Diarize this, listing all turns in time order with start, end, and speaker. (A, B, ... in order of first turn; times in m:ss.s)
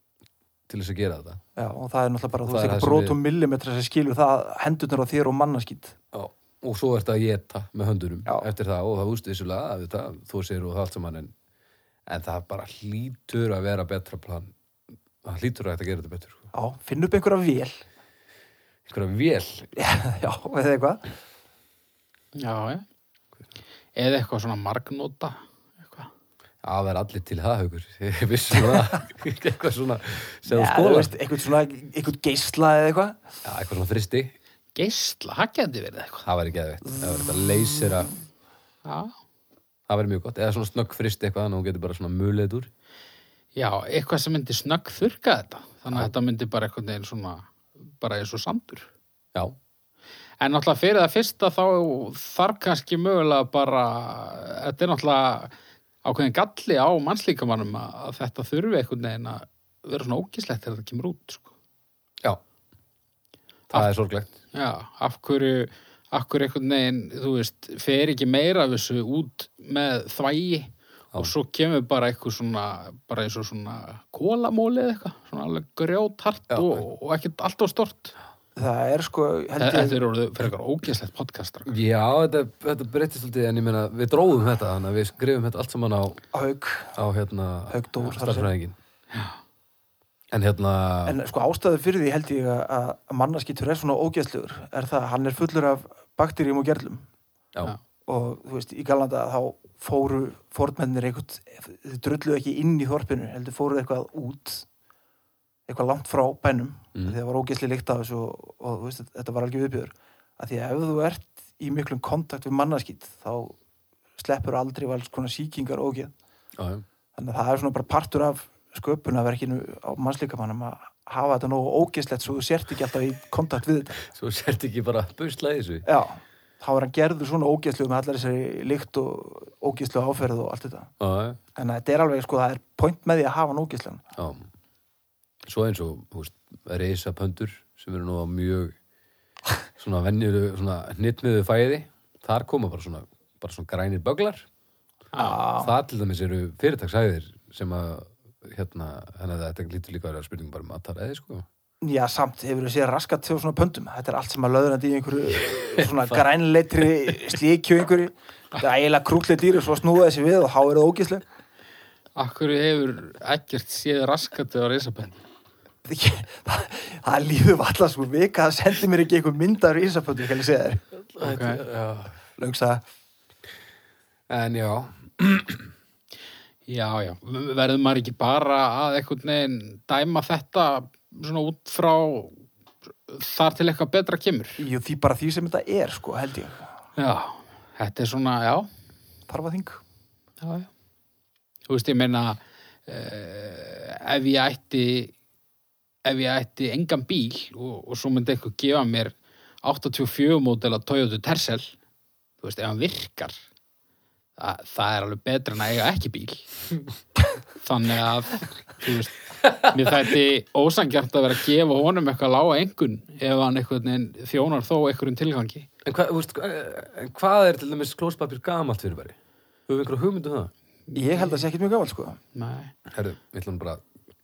0:00.7-0:01.4 A
0:01.6-0:06.0 B
0:02.4-0:03.2 A
0:06.1-0:11.3 A
0:12.1-0:14.5 A
0:15.2-0:16.4 A
0:16.5-0:17.8 B
0:18.9-0:19.7 A
0:19.8-0:21.0 B
0:22.4-0:22.8 C
0:24.0-0:26.1 C
0:26.6-0:31.1 A
0:30.5-0:33.2 B
0:33.4-0:34.3 A
0:34.8-0:36.2 C
0:36.2-0:38.1 A
0:38.8-0:39.1 C
0:39.9-0:42.7 A
0:43.6-0:48.9 C
0:50.4-0:55.5 C
0:56.0-1:01.5 C
1:03.7-1:04.3 A
1:04.5-1:18.1 C
1:16.5-1:16.8 A
1:18.6-1:20.0 B
1:19.6-1:21.8 C
1:21.7-1:26.2 A
1:26.3-1:27.0 B
1:27.0-1:28.8 A
1:27.7-1:28.5 B
1:29.1-1:29.4 C
1:30.3-1:31.2 A
1:31.0-1:37.0 B
1:38.1-1:44.7 B
1:45.7-1:53.6 B
1:54.2-1:56.1 B
1:56.6-1:56.8 A
1:57.2-2:04.0 B
2:04.0-2:05.9 A
2:05.8-2:10.9 B
2:11.0-2:11.4 A
2:11.6-2:14.0 B
2:14.2-2:14.5 A
2:15.4-2:18.7 A
2:19.8-2:24.5 A
2:25.1-2:25.4 C
2:25.2-2:25.7 B
2:25.6-2:31.5 A
2:31.8-2:41.2 B
2:42.2-2:45.2 C
2:45.8-2:50.8 B
2:51.1-2:52.2 A
2:51.2-2:51.6 C
2:52.4-2:52.8 B
2:54.3-2:55.7 A
2:56.7-3:02.4 C
3:03.1-3:04.6 C
3:04.6-3:06.7 B
3:07.0-3:08.7 C
3:09.3-3:09.8 B
3:10.4-3:10.7 C
3:11.7-3:15.1 C
3:16.0-3:21.8 C
3:22.4-3:23.4 C
3:24.4-3:26.5 C
3:27.6-3:35.7 C
3:29.4-3:29.7 A
3:35.8-3:39.1 A
3:39.7-3:40.5 A
3:40.9-3:41.4 C
3:41.0-3:42.2 B
3:42.3-3:42.7 C
3:42.9-3:43.8 A